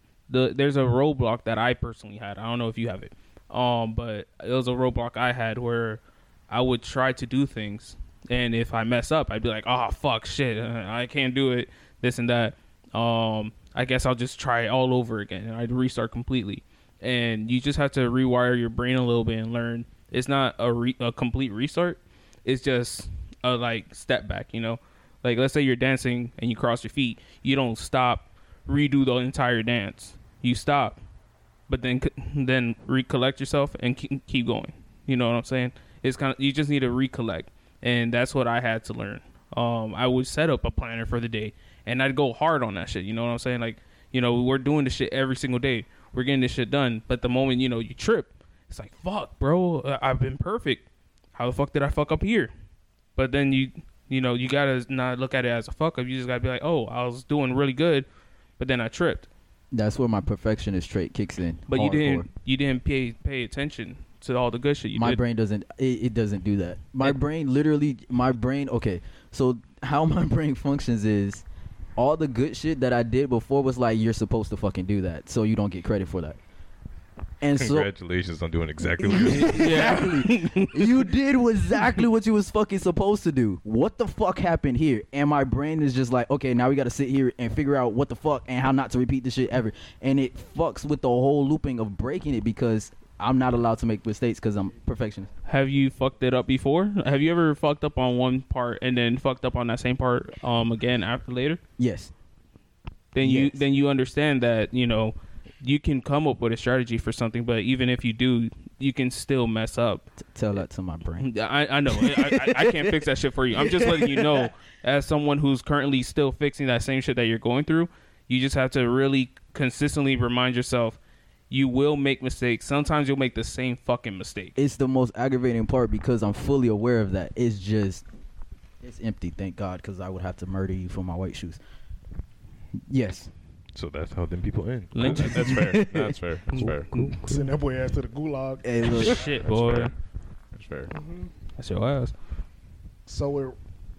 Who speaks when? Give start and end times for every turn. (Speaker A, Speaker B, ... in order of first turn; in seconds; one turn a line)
Speaker A: 0.3-31.0
Speaker A: 31.7-52.5
Speaker A: 53.2-58.1
Speaker A: 58.6-59.3
Speaker B: 59.7-62.3
Speaker A: 61.7-65.2
Speaker B: 65.0-71.4
Speaker B: 72.0-76.4
Speaker B: 77.4-77.9
Speaker C: 77.5-80.0
Speaker B: 79.0-95.3
Speaker A: 79.2-81.0
Speaker A: 95.5-101.6
Speaker B: 101.8-102.1
Speaker A: 103.1-110.0
Speaker B: 103.2-103.6
Speaker B: 110.2-111.3
Speaker A: 111.2-121.0
Speaker B: 111.9-112.9
Speaker B: 113.6-114.5
Speaker A: 121.5-124.6
Speaker B: 124.6-128.0
Speaker B: 128.8-131.6
Speaker B: 132.9-133.3
Speaker C: 133.8-135.3
Speaker A: 134.9-135.7
Speaker D: 135.0-137.1
Speaker B: 135.1-137.3
Speaker A: 136.5-137.4
Speaker E: 137.2-138.7
Speaker B: 138.6-139.2
Speaker A: 138.9-139.9
Speaker D: 139.4-139.9
Speaker D: 140.5-140.9
Speaker E: 140.9-141.3
Speaker A: 141.6-142.1
Speaker E: 143.1-143.6